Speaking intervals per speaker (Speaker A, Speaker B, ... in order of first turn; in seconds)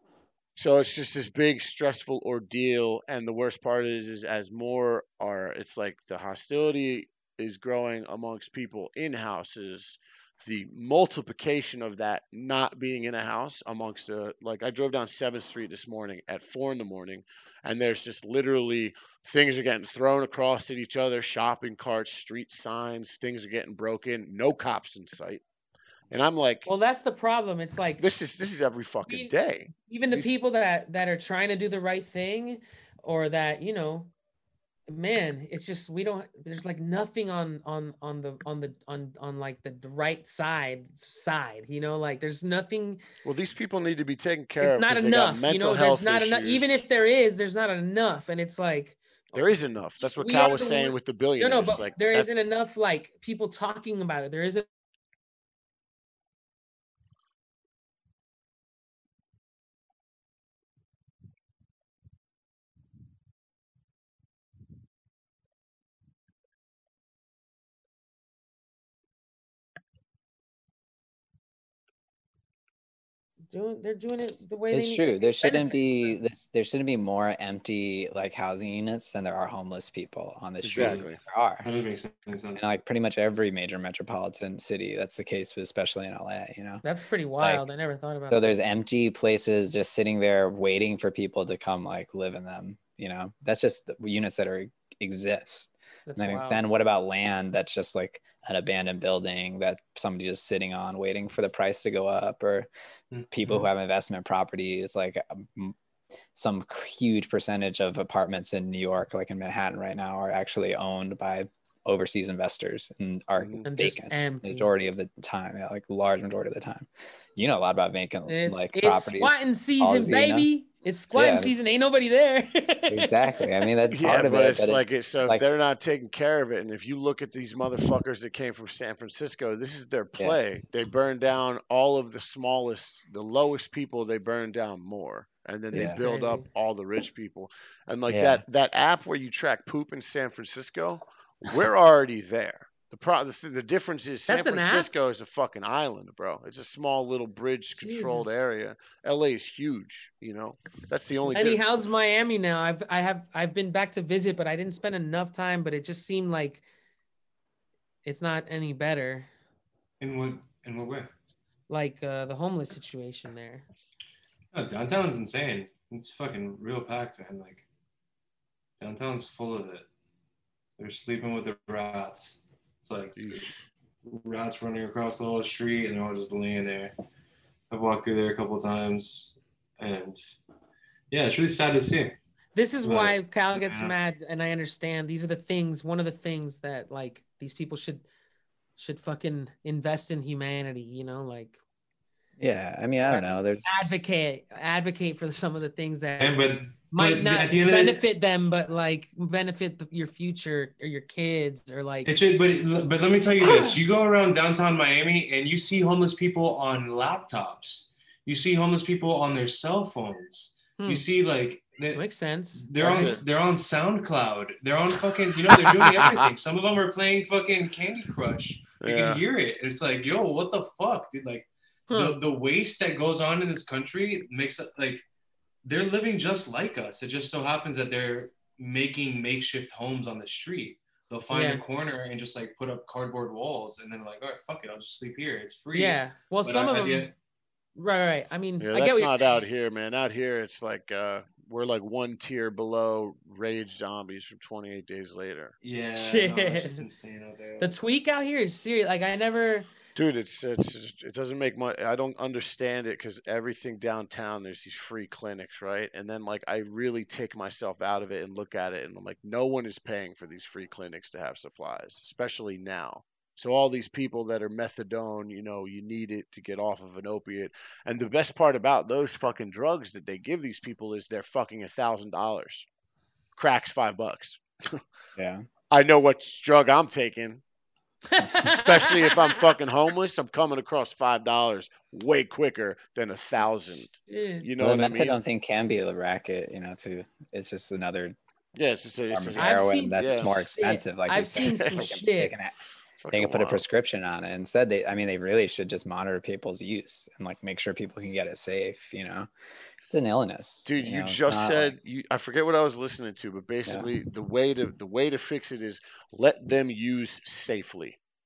Speaker A: 0.6-25.4, 26.1-26.7, 28.0-30.3, 43.2-46.8, 49.3-52.3, 80.6-81.2, 113.4-113.7, 123.9-151.8, 173.2-173.7, 212.8-213.2, 215.7-216.2, 218.8-219.2, 238.6-245.5, 249.9-272.7, 273.4-274.8, 275.7-277.4, 278.4-285.2, 288.6-290.4, 291.4-291.9, 293.0-293.6, 300.6-308.0
Speaker B: 26.7-28.0, 29.1-29.3, 29.9-34.1, 34.9-43.0, 44.6-49.5, 50.2-54.7, 73.5-76.2, 86.8-88.6, 96.1-96.6, 113.7-114.7, 118.3-123.2, 135.8-136.5, 144.3-144.9, 147.7-148.4, 151.3-156.6, 158.1-159.3, 161.7-163.7, 182.6-188.1, 188.8-191.6, 193.0-202.1, 203.4-203.8, 210.8-211.0, 211.9-213.2, 221.9-222.2, 231.3-231.6, 235.7-237.1, 237.8-239.4, 245.9-246.9, 247.6-249.7, 278.1-279.4, 284.1-284.5, 289.4-292.4
Speaker C: 74.7-81.7, 82.6-86.8, 88.3-102.7, 103.3-105.8, 106.3-120.5, 121.1-121.7, 122.9-125.4, 135.7-136.0, 138.1-138.4, 192.4-194.1, 212.8-213.1, 275.2-275.4, 278.2-278.5, 284.6-288.1, 289.1-292.6, 293.1-299.3, 299.9-301.7
Speaker D: 80.8-81.0, 81.6-82.7, 103.1-103.6, 160.0-161.1, 164.5-167.7, 168.8-169.9, 170.8-173.5, 174.0-176.9, 177.7-180.2, 181.1-182.2, 182.8-183.9, 196.2-198.0, 202.1-212.0, 212.6-225.1, 225.6-237.1, 245.6-247.7